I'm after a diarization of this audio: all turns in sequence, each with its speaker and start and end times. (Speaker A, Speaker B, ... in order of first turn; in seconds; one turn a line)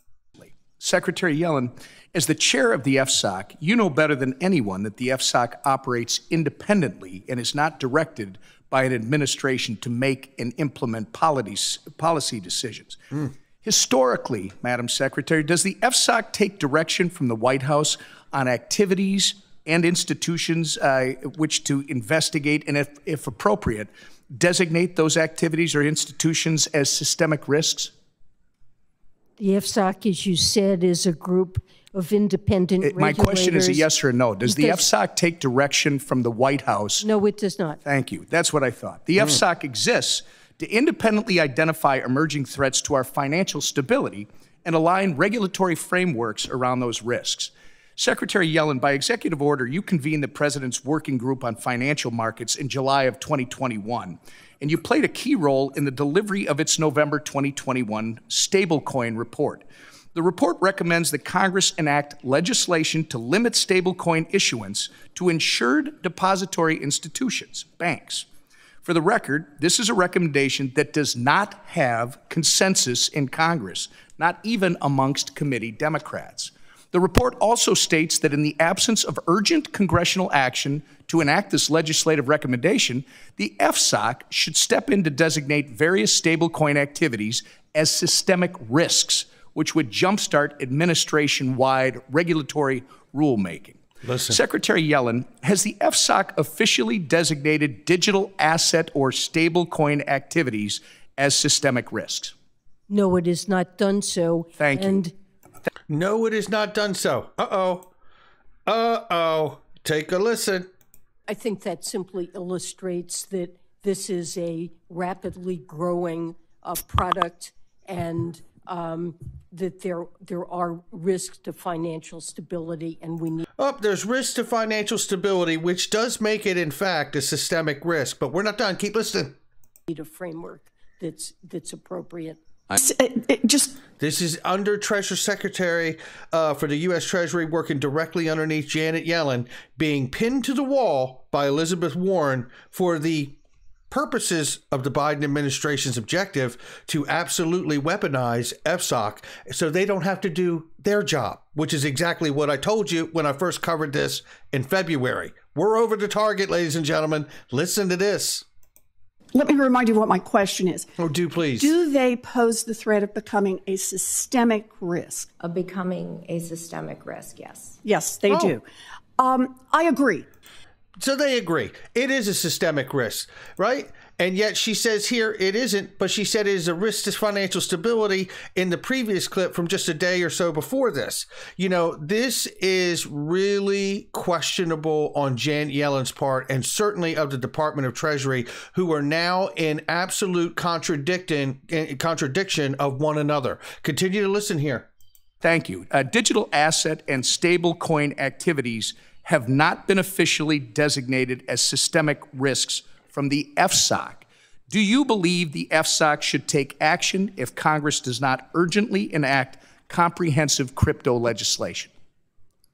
Speaker A: 0.4-27.9
Speaker B: 29.4-33.9
Speaker A: 32.8-37.1
Speaker B: 34.4-34.9
Speaker B: 37.0-37.8
Speaker A: 37.8-68.2
Speaker A: 68.8-102.3
Speaker C: 94.0-94.4
Speaker B: 102.9-105.1
Speaker A: 104.6-105.0
Speaker C: 105.9-107.9
Speaker C: 108.7-110.7
Speaker B: 111.3-123.4
Speaker C: 123.6-129.3
Speaker B: 129.9-132.4
Speaker D: 132.8-133.7
Speaker C: 134.0-143.3
Speaker C: 143.9-158.4
Speaker D: 159.3-160.9
Speaker C: 161.0-161.7
Speaker D: 161.6-165.2
Speaker E: 165.4-167.8
Speaker D: 167.8-168.6
Speaker D: 169.2-170.2
Speaker C: 171.0-194.9
Speaker A: 195.4-211.9